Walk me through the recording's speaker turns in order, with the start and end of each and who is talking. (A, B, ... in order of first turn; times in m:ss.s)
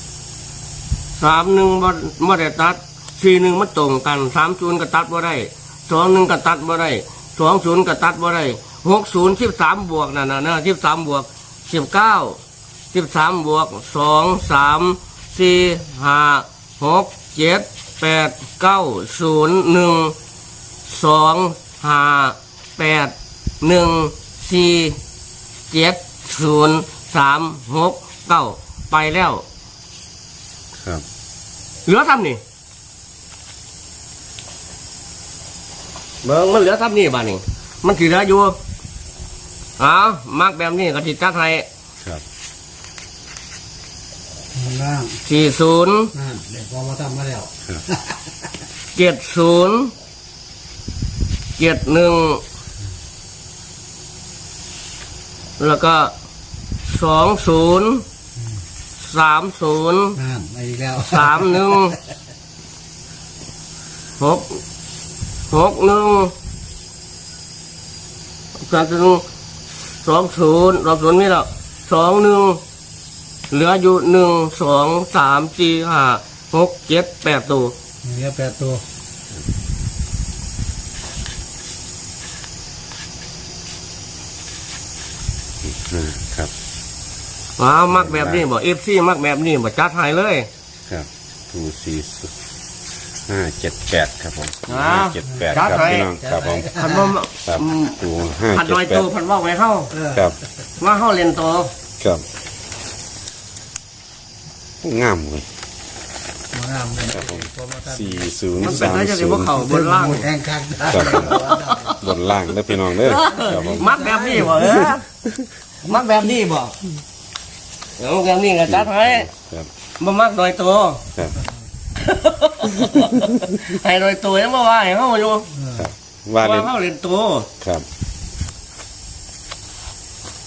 0:01.2-0:12.4 A
0:12.9-0:20.1 A
0:20.8-0:25.0 A
0:25.7-0:29.4 A
0:31.8-0:32.4 A
0:36.2-0:38.6 A
0:39.8-0:41.6 A
0:44.5-0:45.2 B
0:45.2-0:46.1 A
0:46.1-0:48.1 B
0:48.9-0:49.9 A
0:51.6-0:52.4 A
0:55.6-0:56.1 A
0:56.9-0:58.0 A
0:59.0-1:00.2 A
1:00.2-1:01.9 B
1:01.1-1:02.0 A
1:04.2-1:04.6 A
1:05.5-1:06.3 A
1:08.6-1:09.2 A
1:10.0-1:12.6 A
1:13.5-1:17.7 A
1:18.0-1:18.8 B
1:25.6-1:26.5 C
1:27.6-1:30.5 A
1:27.9-1:28.4 C
1:30.9-1:32.3 C
1:33.3-1:36.8 C
1:34.7-1:36.1 A
1:35.6-1:37.0 B
1:36.7-1:38.0 A
1:37.4-1:39.1 C
1:38.5-1:39.9 A
1:39.9-1:40.3 B
1:40.8-1:41.7 A
1:44.8-1:45.5 C
1:46.5-1:48.9 B
1:47.1-1:49.5 C
1:48.6-1:50.3 A
1:49.5-1:51.9 B
1:50.9-1:54.4 C
1:51.1-1:52.0 A
1:52.9-1:55.0 A
1:53.3-1:54.9 B
1:55.8-1:56.7 A
1:58.0-1:59.3 A
1:58.7-1:59.7 C
2:00.0-2:01.0 A
2:02.0-2:05.5 A
2:05.6-2:05.8 B
2:05.7-2:06.7 C
2:06.4-2:07.5 A